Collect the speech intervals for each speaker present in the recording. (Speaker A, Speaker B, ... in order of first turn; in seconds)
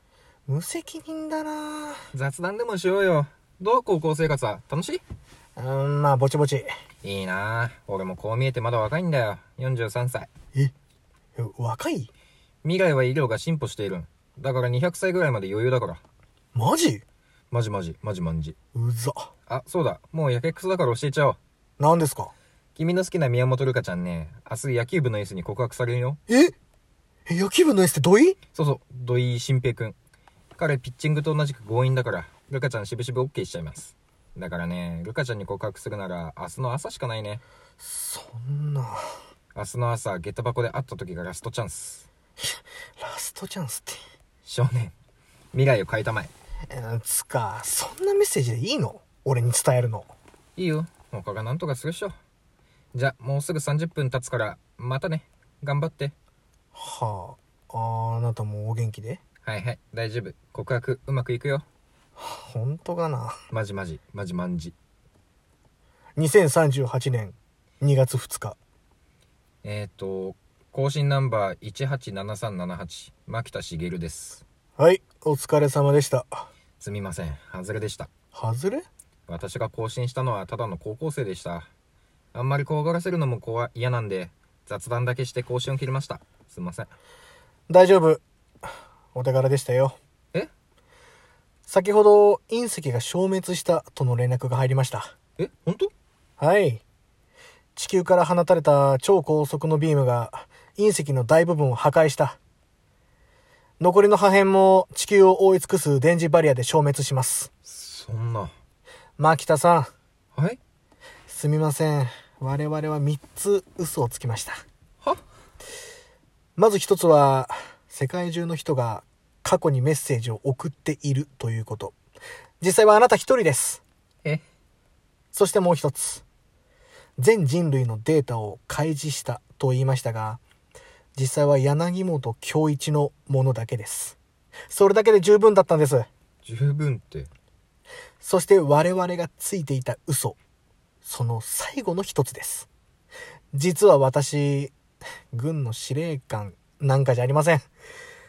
Speaker A: 0.5-2.0, 5.6-6.7, 11.4-12.1, 16.5-17.0, 18.8-19.3, 21.8-22.3, 26.3-26.6, 27.3-28.4, 37.8-39.2, 43.0-44.0, 46.7-50.1, 56.8-59.2, 62.2-63.4, 66.2-68.6, 74.8-76.5, 78.3-78.8, 87.7-88.2, 89.1-90.0, 91.7-95.1, 96.4-96.8, 97.8-102.4, 103.8-107.5, 109.2-109.9, 111.3-114.6, 116.6-122.0, 122.6-123.8, 125.3-126.2, 127.2-130.4, 131.2-134.2, 134.7-136.1, 138.2-140.4, 141.0-142.7, 143.5-144.7, 145.3-147.7
Speaker B: 2.1-5.0, 7.0-10.3, 12.6-16.0, 17.5-18.6, 19.5-21.4, 22.8-26.2, 28.6-30.0, 30.6-37.4, 39.5-42.1, 44.5-44.9, 45.5-46.3, 50.6-52.2, 52.9-56.1, 59.4-61.7, 63.5-64.8, 69.6-74.4, 76.8-78.1, 79.3-81.7, 82.3-86.9, 95.4-95.9, 107.7-108.5, 110.3-110.6, 136.4-137.3